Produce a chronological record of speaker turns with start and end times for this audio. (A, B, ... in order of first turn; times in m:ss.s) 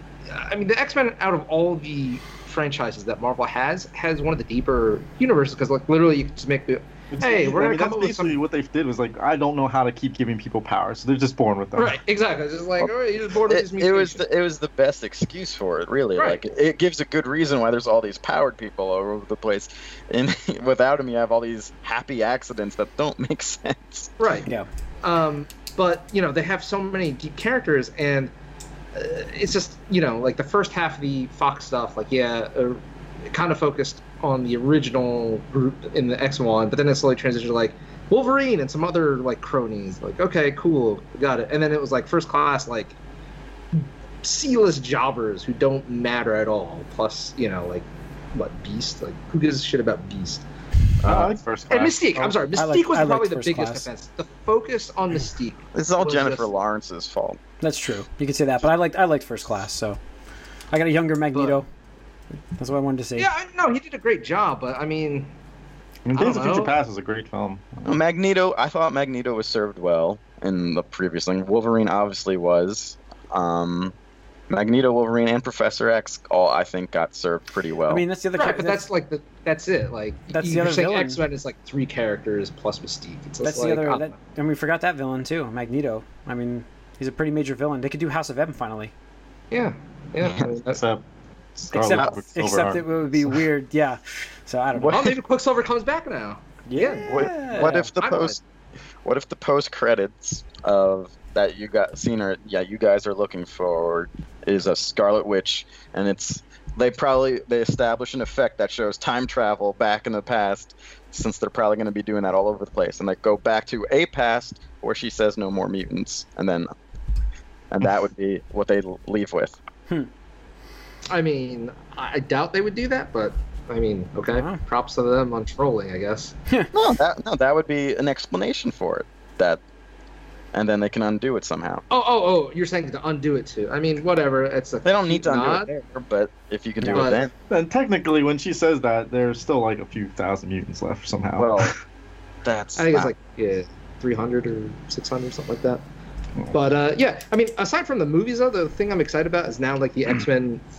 0:00.3-0:08.4 A
0:07.1-0:12.0 B
0:11.8-0:14.2 A
0:13.5-0:24.1 C
0:16.2-0:16.4 A
0:24.2-0:24.5 A
0:25.0-0:28.3 A
0:28.9-0:43.0 A
0:44.2-0:50.4 A
0:51.0-0:52.4 B
0:51.0-0:51.3 C
0:51.7-0:56.5 A
0:52.6-0:53.9 D
0:55.8-0:57.4 C
0:57.6-1:00.0 D
1:00.7-1:01.7 D
1:02.6-1:03.3 D
1:03.2-1:05.3 A
1:06.1-1:08.0 B
1:06.2-1:06.8 A
1:07.8-1:13.9 C
1:14.5-1:18.0 C
1:17.9-1:18.8 D
1:18.4-1:24.1 A
1:20.3-1:21.2 D
1:23.4-1:28.9 D
1:29.5-1:30.8 A
1:30.7-1:31.0 B
1:31.6-1:33.4 B
1:31.7-1:35.2 D
1:34.8-1:35.1 C
1:34.9-1:38.4 A
1:36.7-1:37.9 D
1:36.8-1:38.4 C
1:39.0-1:56.7 C
1:57.7-1:59.6 C
2:01.1-2:06.3 A
2:04.3-2:04.6 D
2:06.7-2:09.6 C
2:10.5-2:11.8 C
2:11.9-2:15.7 A
2:14.8-2:17.3 C
2:16.8-2:17.2 D
2:16.9-2:17.3 A
2:17.5-2:21.8 B
2:21.4-2:21.7 C
2:22.4-2:23.2 C
2:22.8-2:25.8 A
2:26.5-2:30.6 A